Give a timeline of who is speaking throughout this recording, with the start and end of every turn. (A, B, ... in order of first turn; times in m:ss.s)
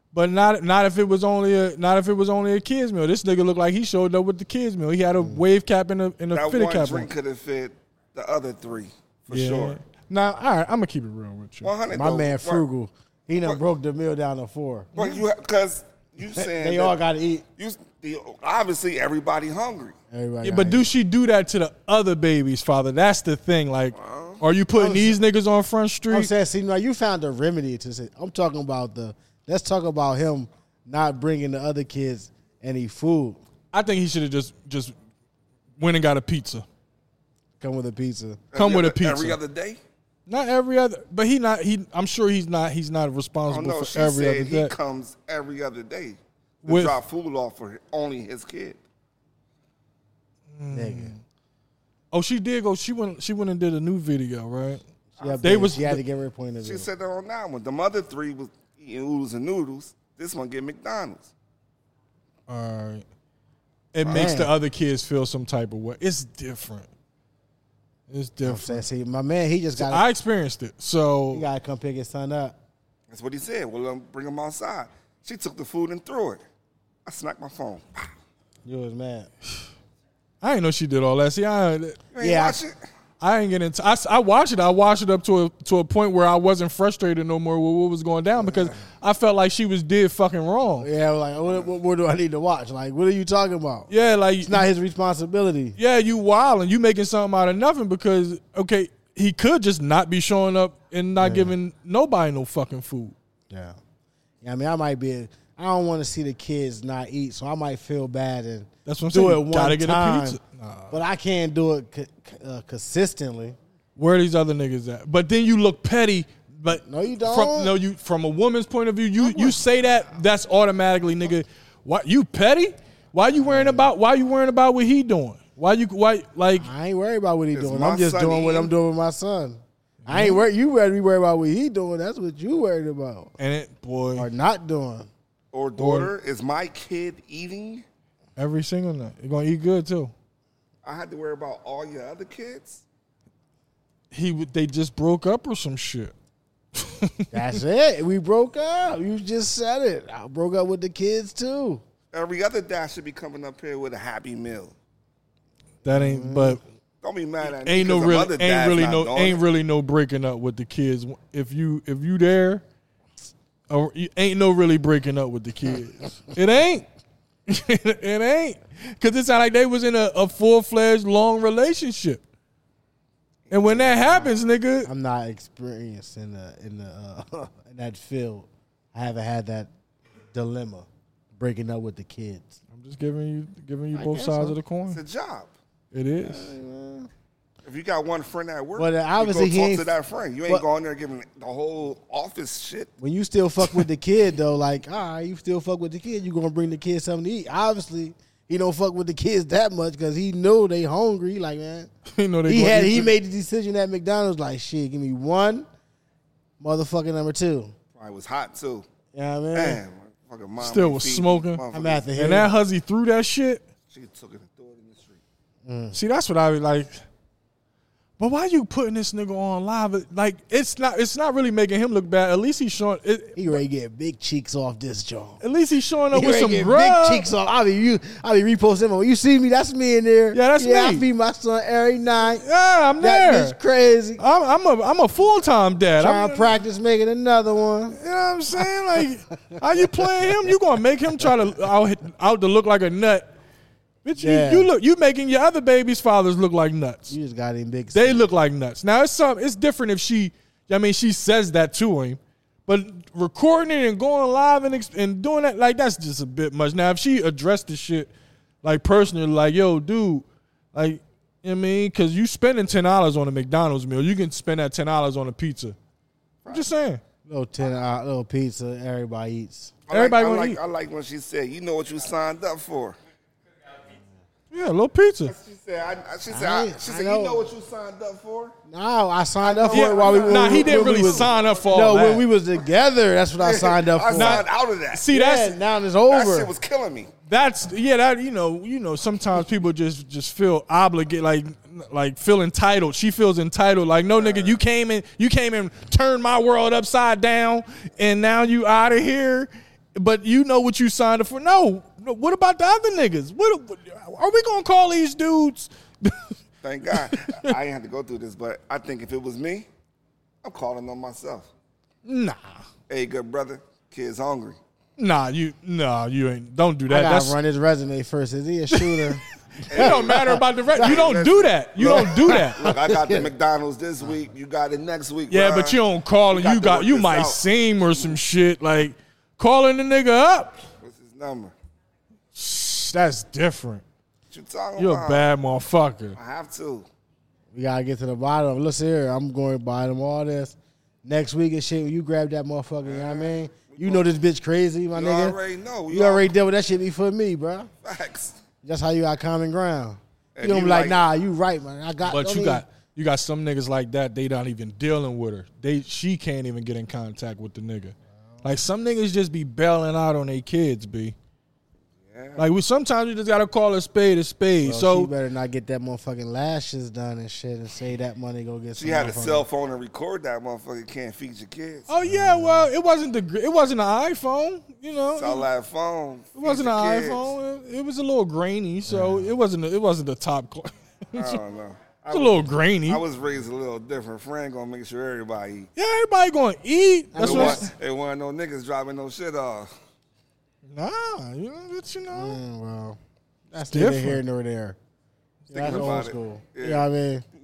0:00.1-0:07.1 A
0:05.2-0:05.4 B
0:06.3-0:09.8 C
0:09.3-0:11.7 A
0:11.6-0:12.6 C
0:11.9-0:14.9 B
0:15.0-0:15.2 A
0:15.0-0:17.0 C
0:16.3-0:17.4 B
0:17.6-0:20.0 C
0:20.1-0:20.9 B
0:20.4-0:26.3 A
0:24.0-0:24.4 C
0:24.8-0:25.2 B
0:26.1-0:33.4 B
0:33.7-0:34.9 A
0:35.8-0:36.6 A
0:37.6-0:38.4 B
0:38.5-0:39.8 C
0:38.5-0:39.4 A
0:40.3-0:44.7 A
0:43.5-0:48.8 C
0:46.6-0:47.0 A
0:50.5-0:51.2 A
0:50.7-0:51.1 B
0:52.1-0:54.8 A
0:55.2-0:56.9 B
0:55.2-0:55.6 C
0:55.4-0:56.0 A
0:56.6-1:01.3 C
1:02.5-1:03.0 A
1:03.9-1:06.9 A
1:04.0-1:04.4 C
1:04.1-1:04.5 B
1:08.1-1:08.8 A
1:08.4-1:10.0 B
1:09.8-1:11.5 A
1:11.3-1:12.6 B
1:13.1-1:16.4 C
1:17.1-1:18.1 C
1:18.6-1:19.3 B
1:20.4-1:22.0 A
1:22.1-1:22.8 C
1:22.2-1:22.6 B
1:23.2-1:30.9 A
1:30.8-1:33.9 B
1:33.9-1:34.7 A
1:34.4-1:35.8 B
1:35.8-1:43.2 A
1:41.2-1:41.5 B
1:43.5-1:43.8 B
1:44.4-1:50.4 B
1:48.9-1:51.0 A
1:50.9-1:53.6 B
1:54.0-2:06.7 A
1:56.7-1:57.7 B
1:59.2-1:59.6 B
2:03.4-2:03.9 B
2:06.6-2:13.3 B
2:07.5-2:08.7 C
2:10.0-2:10.4 A
2:13.4-2:14.3 A
2:14.2-2:15.1 B
2:15.5-2:17.8 C
2:15.8-2:16.1 A
2:18.4-2:20.1 A
2:20.8-2:22.8 C
2:24.1-2:26.1 A
2:26.8-2:27.6 A
2:27.3-2:31.8 B
2:32.1-2:34.7 C
2:35.8-2:36.6 A
2:35.9-2:36.6 B
2:37.0-2:39.4 C
2:37.5-2:42.6 A
2:43.7-2:46.8 A
2:47.5-2:52.2 A
2:53.5-2:54.3 C
2:53.5-2:54.9 A
2:54.8-2:59.7 B
3:00.3-3:02.6 B
3:02.7-3:05.0 A
3:03.9-3:04.6 B
3:04.9-3:05.5 C
3:05.9-3:06.5 A
3:06.2-3:07.1 B
3:07.6-3:12.9 C
3:08.8-3:09.9 B
3:13.0-3:21.9 B
3:22.1-3:23.1 A
3:22.5-3:25.7 B
3:26.6-3:27.7 B
3:28.0-3:28.9 C
3:29.1-3:29.8 B
3:29.5-3:32.1 C
3:30.6-3:31.6 A
3:31.7-3:32.5 B
3:32.2-3:33.6 A
3:33.9-3:35.2 C
3:35.6-3:36.0 B
3:35.9-3:37.0 A
3:38.2-3:43.6 A
3:43.4-3:45.4 B
3:45.4-3:47.3 A
3:46.1-3:52.4 B
3:50.3-3:51.0 A
3:52.4-3:53.6 A
3:53.0-3:54.2 B
3:54.2-3:56.5 A
3:56.0-3:58.0 B
3:57.9-4:03.3 A
3:59.5-4:00.6 B
4:04.0-4:07.2 A
4:04.2-4:04.7 B
4:07.1-4:08.3 B
4:07.9-4:18.1 A
4:18.6-4:25.8 A
4:26.5-4:27.0 A
4:27.3-4:29.7 B
4:29.9-4:33.0 C
4:29.9-4:30.6 A
4:34.5-4:35.3 A
4:35.3-4:38.6 C
4:36.3-4:37.5 B
4:38.7-4:44.4 B
4:39.4-4:41.7 C
4:39.7-4:42.3 A
4:43.4-4:45.0 C
4:44.1-4:45.6 A
4:45.1-4:46.5 B
4:46.1-4:47.1 C
4:47.3-5:06.3 A
4:54.2-4:54.6 C
5:06.6-5:09.7 C
5:06.9-5:07.6 A
5:10.4-5:11.5 C
5:12.0-5:12.6 A
5:12.9-5:14.6 C
5:15.0-5:17.4 A
5:16.9-5:19.2 B
5:18.7-5:19.2 A
5:19.7-5:27.4 C
5:19.7-5:22.6 A
5:19.7-5:20.9 B
5:21.8-5:23.3 B
5:25.3-5:30.6 A
5:30.8-5:31.5 C
5:32.4-5:33.8 A
5:34.3-5:35.3 C
5:34.8-5:36.2 A
5:36.2-5:36.9 C
5:37.5-5:45.4 B
5:42.8-5:44.1 C
5:44.9-5:46.3 C
5:45.9-5:47.7 B
5:47.8-5:48.4 C
5:48.6-5:52.6 B
5:50.4-5:51.0 C
5:52.0-6:01.2 A
6:02.0-6:02.5 C
6:02.4-6:05.1 A
6:04.6-6:09.5 B
6:08.8-6:11.9 C
6:11.9-6:15.5 A
6:12.0-6:12.7 B
6:15.2-6:17.4 C
6:16.4-6:21.4 A
6:18.9-6:19.3 B
6:21.2-6:25.7 C
6:22.1-6:23.0 A
6:25.8-6:27.7 A
6:27.1-6:27.7 B
6:27.2-6:29.7 C
6:30.7-6:32.4 A
6:32.1-6:33.0 B
6:33.5-6:34.8 B
6:33.7-6:34.2 A
6:35.5-6:37.2 B
6:35.5-6:36.9 C
6:35.6-6:36.0 A